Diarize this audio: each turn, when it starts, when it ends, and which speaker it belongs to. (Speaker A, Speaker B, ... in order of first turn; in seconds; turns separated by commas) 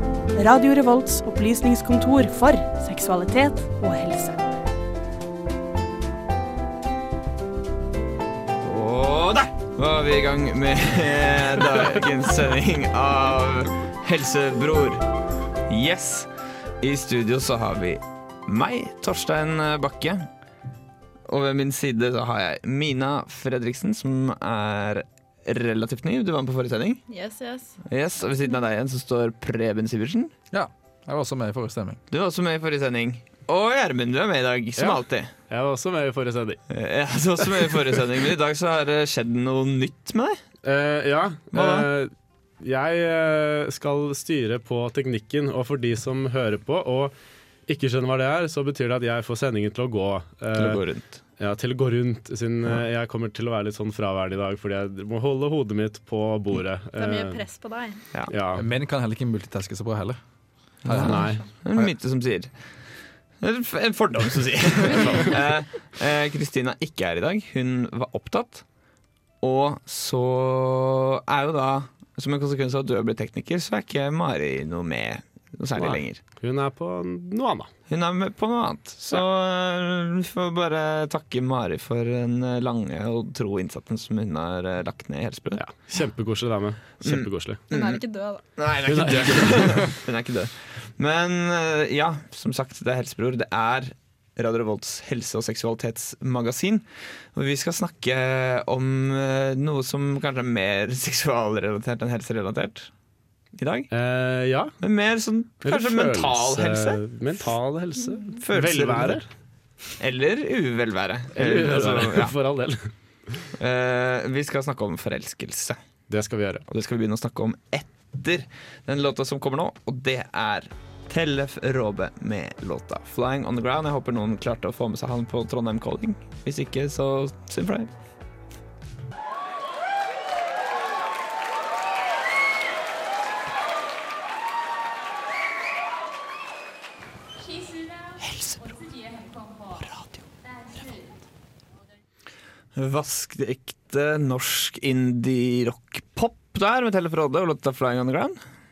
Speaker A: 0.3-4.5, Speaker B: 8.6-15.0, Speaker B: 15.7-16.3, Speaker B: 16.8-20.3, Speaker B: 21.3-27.0, Speaker C: 27.1-27.8, Speaker B: 27.9-30.3, Speaker D: 30.5-32.0, Speaker B: 32.1-35.3, Speaker E: 34.8-36.6, Speaker B: 36.7-40.4, Speaker E: 40.6-47.1, Speaker B: 41.5-41.9, Speaker E: 47.7-50.8, Speaker B: 50.6-51.2, Speaker E: 51.4-57.4, Speaker C: 57.0-58.0, Speaker E: 58.3-58.6, Speaker D: 58.5-60.2, Speaker D: 60.8-61.9, Speaker B: 60.9-62.5, Speaker E: 60.9-61.4, Speaker B: 63.4-68.6, Speaker E: 64.9-65.3, Speaker B: 69.4-76.2, Speaker E: 75.8-77.7, Speaker B: 77.9-85.6, Speaker E: 85.6-87.6, Speaker B: 87.0-88.0, Speaker C: 87.7-88.5, Speaker B: 88.6-102.9, Speaker E: 88.9-89.9, Speaker B: 103.6-103.9, Speaker E: 103.9-104.8, Speaker B: 104.8-107.5, Speaker E: 105.6-109.3, Speaker B: 108.4-109.2, Speaker B: 110.0-112.3, Speaker E: 111.3-112.9, Speaker B: 113.6-115.8, Speaker E: 116.1-116.6, Speaker B: 116.7-127.9, Speaker B: 138.2-138.8, Speaker B: 139.7-140.2, Speaker B: 142.8-148.4